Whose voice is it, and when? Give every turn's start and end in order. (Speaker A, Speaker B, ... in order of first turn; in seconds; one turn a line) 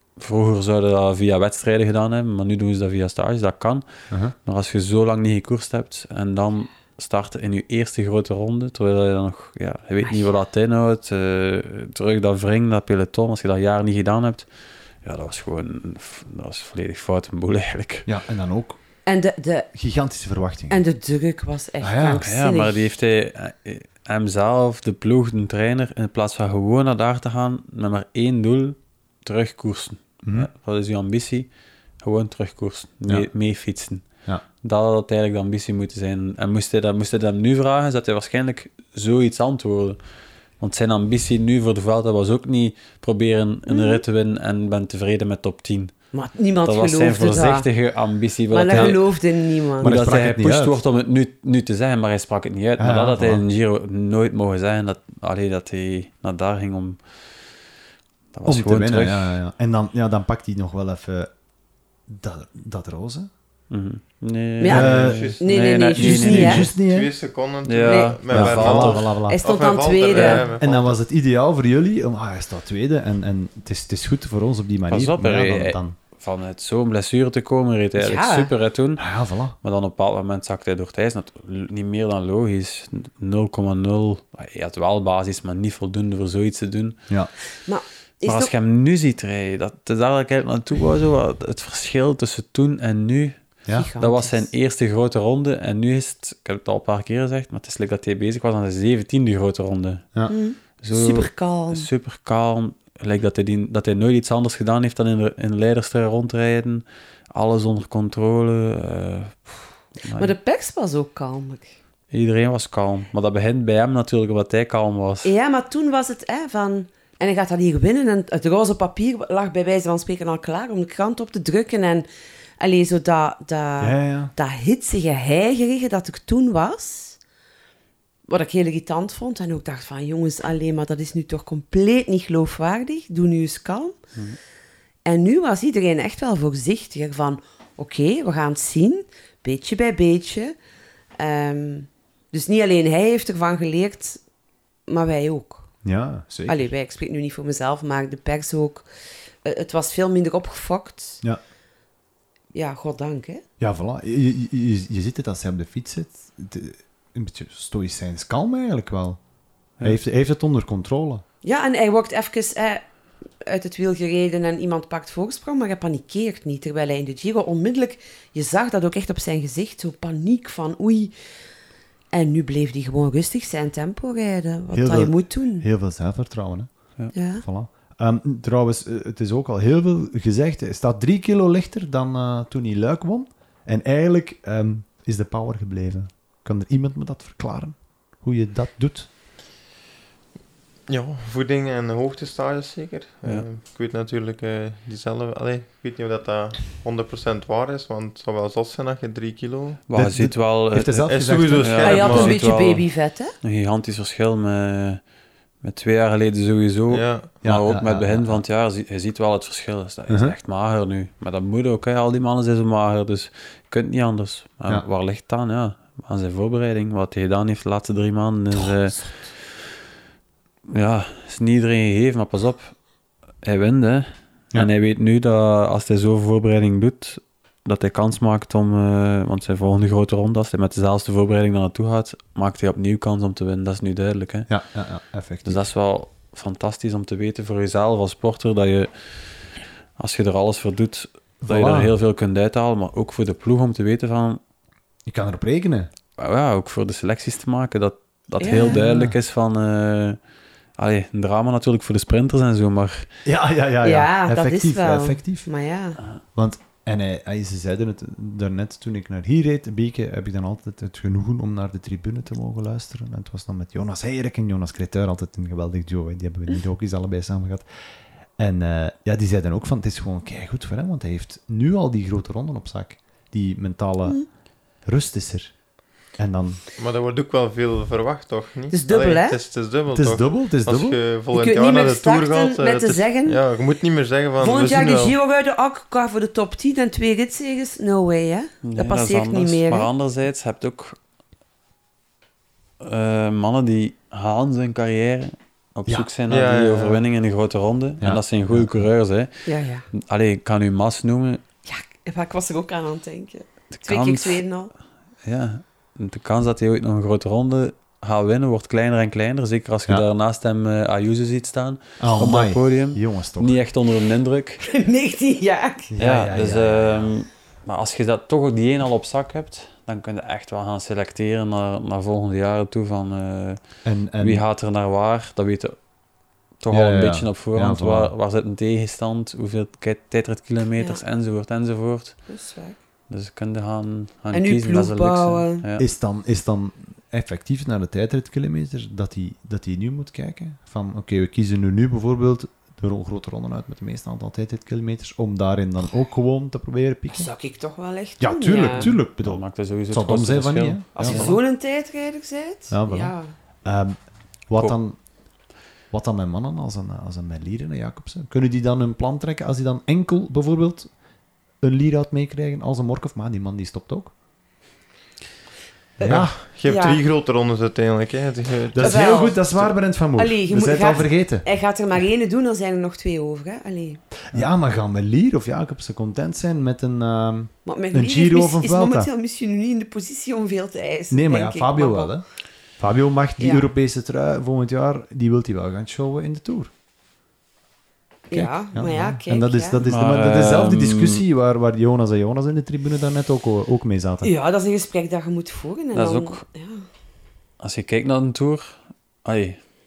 Speaker A: 0.2-3.8
Speaker A: 4.5-14.4
Speaker A: 15.0-18.1
Speaker B: 18.1-18.8
Speaker C: 19.1-19.7
Speaker B: 19.7-20.8
Speaker C: 20.7-22.8
Speaker B: 21.8-22.3
Speaker A: 22.2-31.5
Speaker A: 32.0-34.0
Speaker A: 34.6-40.0
Speaker A: 40.6-45.9
Speaker C: 43.7-44.0
Speaker C: 46.1-47.7
Speaker A: 46.6-49.0
Speaker C: 48.5-49.9
Speaker B: 48.7-49.0
Speaker B: 49.8-50.8
Speaker A: 49.8-57.0
Speaker B: 52.8-53.4
Speaker A: 58.3-59.4
Speaker B: 58.5-61.3
Speaker B: 62.1-63.3
Speaker A: 63.7-66.7
Speaker C: 64.6-66.7
Speaker B: 64.7-65.3
Speaker D: 64.7-65.4
Speaker B: 66.0-67.1
Speaker D: 66.7-71.0
Speaker A: 67.6-69.1
Speaker C: 67.8-68.2
Speaker B: 68.3-69.4
Speaker C: 69.3-70.5
Speaker B: 70.2-75.9
Speaker A: 74.9-79.1
Speaker C: 78.0-78.5
Speaker B: 79.0-79.5
Speaker A: 79.6-87.0
Speaker C: 87.7-88.5
Speaker A: 88.2-100.2
Speaker C: 93.7-94.5
Speaker C: 100.3-101.9
Speaker A: 100.8-110.3
Speaker C: 110.2-111.7
Speaker A: 112.1-115.3
Speaker C: 115.2-122.1
Speaker C: 122.6-127.2
Speaker B: 123.8-124.3
Speaker C: 128.3-134.0
Speaker C: 135.0-140.5
Speaker C: 141.2-144.2
Speaker C: 144.9-145.7
Speaker B: 145.8-146.7
Speaker C: 146.5-148.9
Speaker C: 149.4-151.2
Speaker C: 152.5-153.4
Speaker B: 153.6-159.2
Speaker B: 159.8-161.2
Speaker C: 161.4-162.8
Speaker C: 163.4-171.1
Speaker C: 172.1-175.7
Speaker B: 174.7-189.1
Speaker C: 177.1-177.4
Speaker D: 190.9-199.8
Speaker A: 199.9-202.8
Speaker B: 199.9-202.3
Speaker D: 201.0-202.3
Speaker C: 201.8-203.3
Speaker A: 203.4-205.0
Speaker A: 205.6-219.6
Speaker D: 206.9-207.3
Speaker B: 207.4-208.4
Speaker B: 210.1-210.3
Speaker A: 220.7-222.7
Speaker A: 223.4-234.5
Speaker B: 234.5-235.6
Speaker A: 235.4-244.4
Speaker B: 241.4-241.9
Speaker B: 245.1-245.9
Speaker A: 246.2-250.2
Speaker C: 248.4-248.8
Speaker B: 248.6-249.2
Speaker A: 250.8-253.1
Speaker B: 253.2-255.5
Speaker C: 253.8-256.0
Speaker B: 256.3-267.6
Speaker B: 268.4-274.2
Speaker B: 274.8-275.5
Speaker B: 276.1-276.6
Speaker D: 276.8-285.1
Speaker C: 278.7-279.4
Speaker B: 279.9-281.0
Speaker C: 281.3-283.4
Speaker C: 284.4-289.9
Speaker A: 288.6-291.0
Speaker A: 292.8-301.4
Speaker D: 296.3-297.0
Speaker B: 298.0-298.9
Speaker C: 299.4-299.9
Speaker C: 301.6-304.7
Speaker A: 303.7-304.4
Speaker A: 305.2-314.6
Speaker B: 312.0-313.6
Speaker C: 314.6-315.9
Speaker B: 315.9-317.1
Speaker A: 316.0-323.6
Speaker B: 323.8-324.4
Speaker A: 324.2-325.7
Speaker A: 326.6-332.2
Speaker B: 326.7-328.1
Speaker C: 332.3-332.8
Speaker A: 333.1-335.9
Speaker C: 334.3-335.6
Speaker B: 335.8-347.3
Speaker C: 347.1-348.9
Speaker B: 348.2-351.3
Speaker A: 348.7-351.4
Speaker C: 350.9-353.3
Speaker B: 352.7-354.0
Speaker B: 354.5-355.0
Speaker B: 355.9-360.9
Speaker B: 361.6-364.1
Speaker C: 366.0-367.0
Speaker B: 366.0-366.4
Speaker D: 366.0-369.7
Speaker B: 368.7-371.4
Speaker C: 368.8-369.4
Speaker C: 370.1-374.0
Speaker B: 374.3-379.1
Speaker C: 377.6-382.2
Speaker B: 381.1-382.2
Speaker B: 382.8-386.7
Speaker C: 383.4-383.7
Speaker C: 388.3-389.8
Speaker B: 388.3-394.3
Speaker A: 389.8-391.2
Speaker C: 394.2-396.8
Speaker A: 395.9-396.4
Speaker A: 397.6-399.6